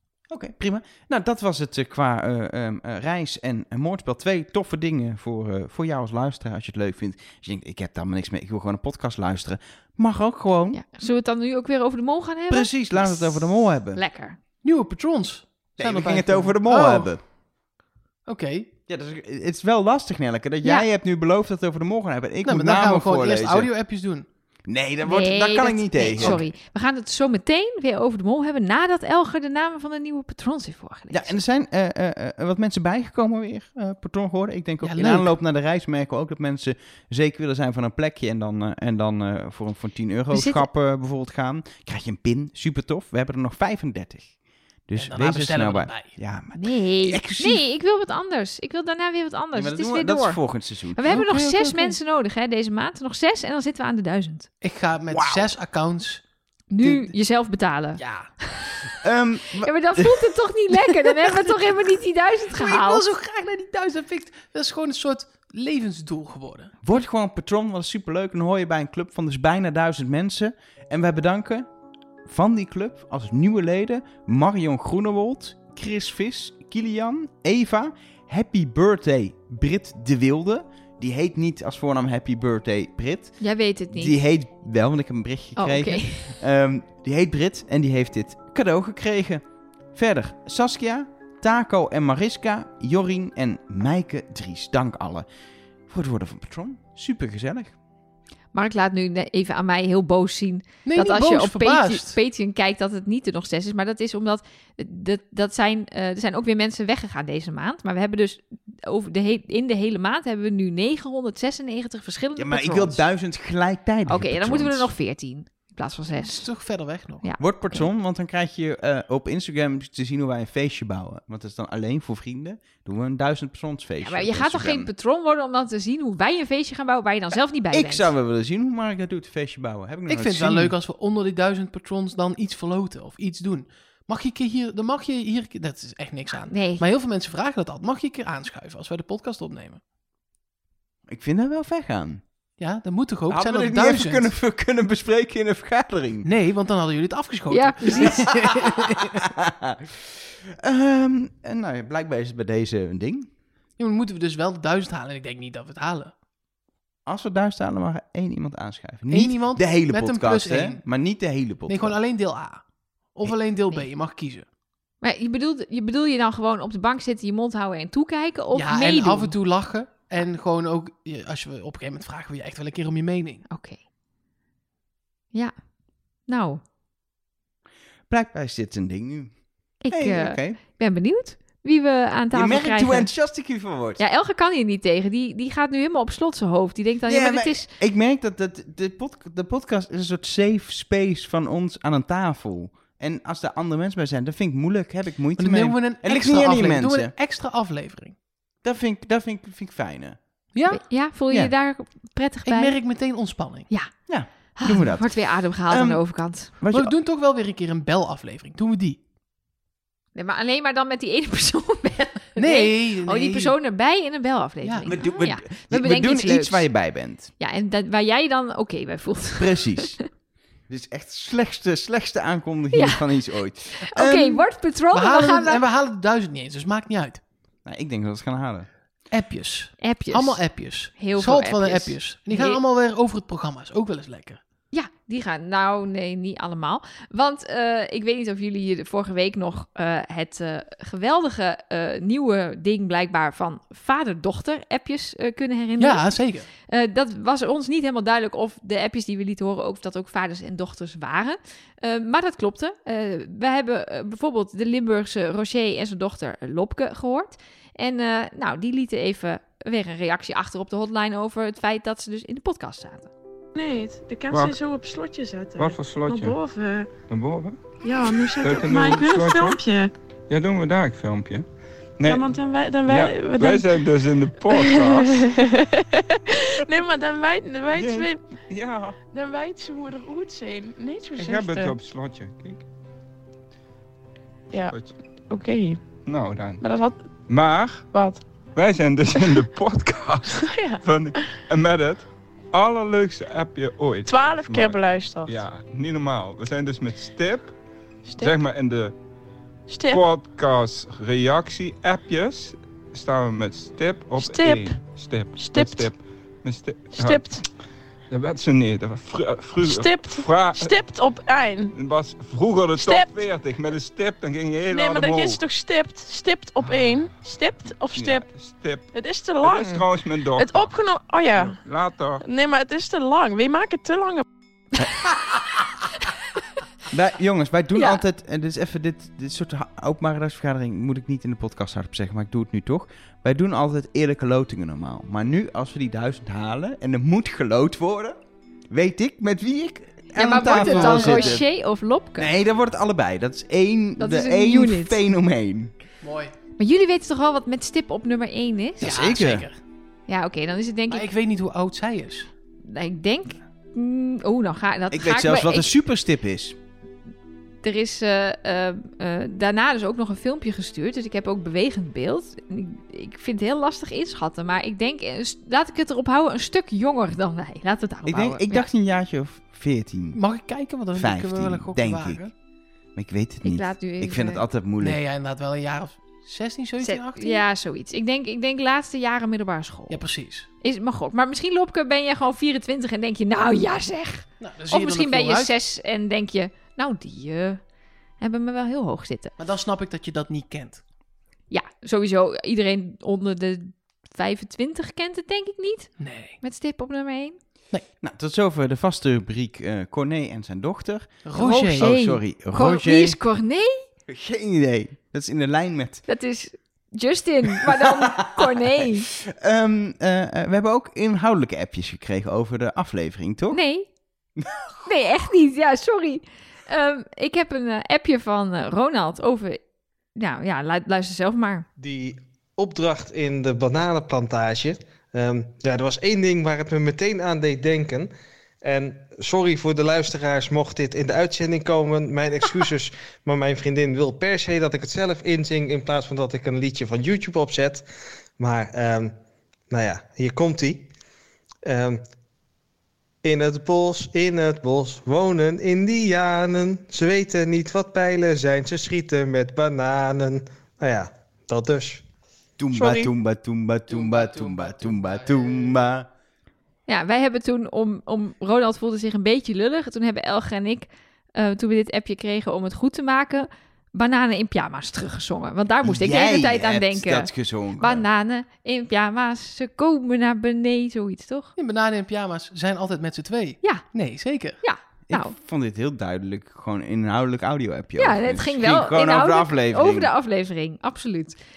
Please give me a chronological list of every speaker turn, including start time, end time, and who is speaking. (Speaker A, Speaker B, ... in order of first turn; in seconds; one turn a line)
Speaker A: 0.3-10.8
Speaker B: 10.7-14.4
Speaker A: 12.5-14.0
Speaker C: 14.6-17.2
Speaker A: 15.8-17.2
Speaker C: 18.2-18.7
Speaker A: 18.9-23.7
Speaker C: 22.4-24.2
Speaker A: 24.7-26.4
Speaker B: 25.0-31.4
Speaker A: 31.1-44.3
Speaker C: 34.8-35.3
Speaker B: 40.3-40.6
Speaker A: 44.9-47.6
Speaker C: 45.0-46.1
Speaker B: 46.5-54.5
Speaker A: 49.5-51.2
Speaker C: 51.1-52.0
Speaker C: 54.6-56.2
Speaker A: 55.1-55.5
Speaker B: 56.7-58.9
Speaker C: 56.8-57.1
Speaker C: 58.0-58.3
Speaker A: 59.0-60.3
Speaker B: 59.6-63.0
Speaker C: 62.5-66.7
Speaker A: 66.8-71.7
Speaker A: 72.2-89.4
Speaker B: 83.4-84.2
Speaker B: 85.6-86.3
Speaker A: 89.9-95.3
Speaker A: 95.9-97.7
Speaker B: 98.5-113.0
Speaker C: 100.8-102.2
Speaker A: 112.4-114.9
Speaker B: 114.1-116.5
Speaker C: 116.2-117.2
Speaker B: 117.2-117.8
Speaker A: 117.4-124.9
Speaker B: 124.0-128.1
Speaker A: 127.7-130.7
Speaker C: 130.1-139.8
Speaker B: 136.5-136.8
Speaker A: 141.1-142.2
Speaker C: 142.6-144.3
Speaker A: 143.3-146.3
Speaker C: 146.2-149.2
Speaker B: 147.5-148.5
Speaker A: 147.8-148.2
Speaker A: 149.2-153.3
Speaker C: 153.8-156.1
Speaker A: 157.0-162.0
Speaker C: 159.1-160.8
Speaker C: 161.7-164.4
Speaker B: 165.0-169.3
Speaker C: 168.5-173.4
Speaker B: 173.5-173.8
Speaker B: 176.3-176.6
Speaker A: 178.1-180.6
Speaker B: 179.8-183.2
Speaker A: 182.3-184.0
Speaker B: 184.0-187.7
Speaker A: 187.1-197.1
Speaker C: 195.4-198.2
Speaker A: 198.6-200.2
Speaker C: 200.5-201.5
Speaker B: 200.7-202.8
Speaker C: 202.4-203.7
Speaker A: 204.1-206.0
Speaker B: 204.4-206.5
Speaker A: 206.6-206.9
Speaker C: 206.7-209.0
Speaker B: 210.1-216.8
Speaker C: 212.3-213.5
Speaker C: 214.6-214.9
Speaker A: 214.9-217.3
Speaker B: 217.4-220.0
Speaker A: 219.4-220.0
Speaker A: 220.7-224.4
Speaker B: 222.7-223.2
Speaker B: 223.8-225.6
Speaker C: 224.9-227.2
Speaker A: 227.6-228.7
Speaker C: 229.1-234.4
Speaker B: 229.8-232.6
Speaker B: 234.7-263.1
Speaker C: 245.8-246.5
Speaker D: 263.5-267.0
Speaker E: 264.3-264.6
Speaker E: 265.6-266.4
Speaker E: 267.1-267.6
Speaker D: 267.8-269.9
Speaker E: 268.1-269.6
Speaker E: 270.3-271.4
Speaker E: 272.0-272.3
Speaker D: 272.0-273.9
Speaker E: 272.8-275.3
Speaker D: 274.5-278.4
Speaker E: 277.7-278.9
Speaker D: 279.1-281.8
Speaker E: 281.2-282.6
Speaker D: 284.5-284.8
Speaker E: 284.7-285.0
Speaker D: 285.3-285.8
Speaker E: 286.0-286.6
Speaker D: 286.6-287.0
Speaker E: 287.3-287.9
Speaker D: 287.9-288.2
Speaker E: 288.5-297.5
Speaker D: 290.4-291.4
Speaker D: 294.0-295.4
Speaker D: 298.1-298.3
Speaker E: 298.2-298.9
Speaker D: 299.7-300.0
Speaker E: 299.9-307.4
Speaker D: 304.2-304.8
Speaker D: 305.3-305.9
Speaker D: 306.9-307.4
Speaker E: 308.1-310.7
Speaker D: 309.6-311.7
Speaker E: 311.7-315.4
Speaker D: 312.8-313.2
Speaker D: 314.7-318.3
Speaker E: 316.7-317.2
Speaker E: 317.9-320.7
Speaker D: 318.9-321.6
Speaker E: 321.4-322.2
Speaker D: 322.2-324.2
Speaker A: 326.9-338.2
Speaker A: 338.7-341.4
Speaker B: 340.2-342.3
Speaker C: 340.5-341.4
Speaker A: 342.2-345.7
Speaker B: 344.0-345.0
Speaker C: 346.0-346.3
Speaker B: 346.6-348.9
Speaker A: 348.8-349.5
Speaker C: 348.8-349.6
Speaker B: 350.1-351.1
Speaker C: 350.9-352.3
Speaker B: 352.6-355.7
Speaker A: 354.9-356.6
Speaker B: 357.6-368.6
Speaker A: 368.1-370.2
Speaker C: 370.1-372.3
Speaker A: 370.9-372.2
Speaker A: 372.9-375.0
Speaker B: 373.4-374.4
Speaker C: 374.8-377.4
Speaker B: 376.8-380.0
Speaker C: 379.9-380.5
Speaker B: 380.6-387.6
Speaker C: 384.4-385.5
Speaker B: 388.2-389.3
Speaker C: 389.4-390.8
Speaker B: 391.5-397.4
Speaker C: 396.0-396.4
Speaker A: 398.0-403.2
Speaker C: 401.2-401.9
Speaker B: 401.4-403.9
Speaker A: 404.1-406.0
Speaker B: 406.1-409.1
Speaker A: 407.6-413.6
Speaker B: 413.5-413.9
Speaker B: 414.8-419.6
Speaker B: 420.1-421.7
Speaker F: 421.8-428.1
Speaker F: 428.6-437.8
Speaker F: 438.4-439.1
Speaker F: 439.7-440.9
Speaker F: 441.6-442.0
Speaker F: 443.2-452.0
Speaker A: 452.6-456.1
Speaker D: 452.7-453.1
Speaker C: 453.9-455.9
Speaker B: 456.9-471.5
Speaker A: 465.8-468.0
Speaker C: 471.6-474.6
Speaker B: 474.6-475.3
Speaker A: 475.1-480.1
Speaker B: 478.0-481.4